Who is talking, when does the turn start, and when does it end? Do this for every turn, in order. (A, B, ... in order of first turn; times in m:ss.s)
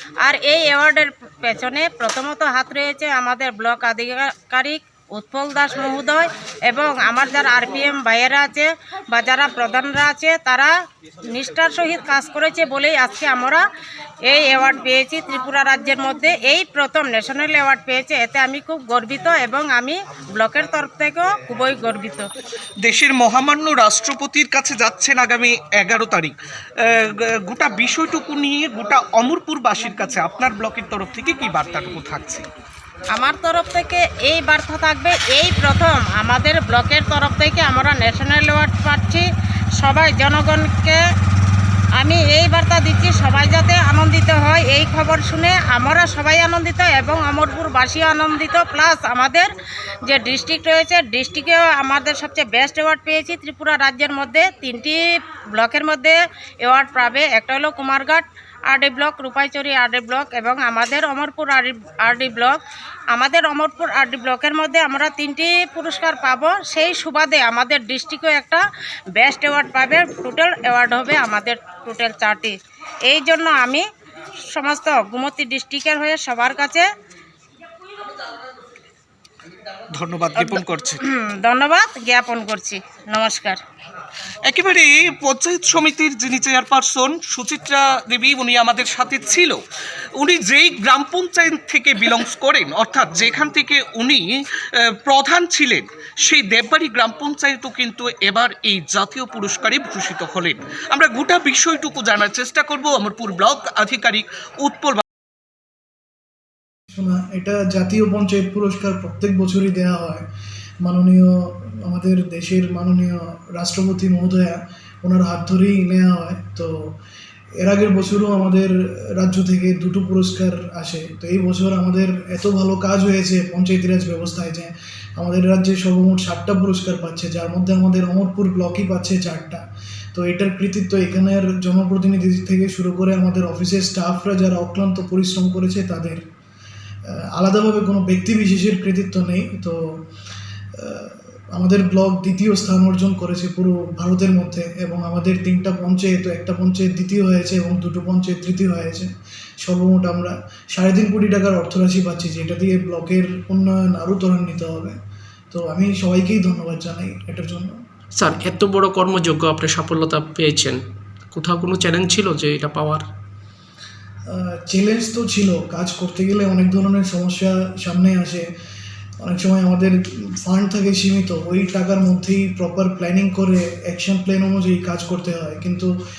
0:00.2-0:10.7 A
0:11.3-0:13.6 A
0:14.3-0:22.3 A
0:22.8-0:32.4 B
0:33.1-0:39.2 A
0:39.8-0:41.0 A
0:42.0-0:49.5 A
0:50.1-0:55.0 A
0:55.6-1:02.5 A
1:03.1-1:08.6 A
1:09.2-1:12.6 A
1:13.1-1:13.8 A
1:14.5-1:16.9 A
1:19.9-1:21.0 B
1:20.4-1:23.6 A
1:24.5-1:29.6 B
1:30.2-1:45.0 B
1:46.9-1:50.2 C
1:50.8-1:56.9 C
1:57.6-2:09.6 C
2:10.1-2:16.2 C
2:17.4-2:19.8 C
2:20.8-2:29.1 C
2:29.6-2:35.0 C
2:35.5-2:37.7 C
2:38.1-2:43.0 D
2:44.3-2:48.4 C
2:49.2-2:55.9 C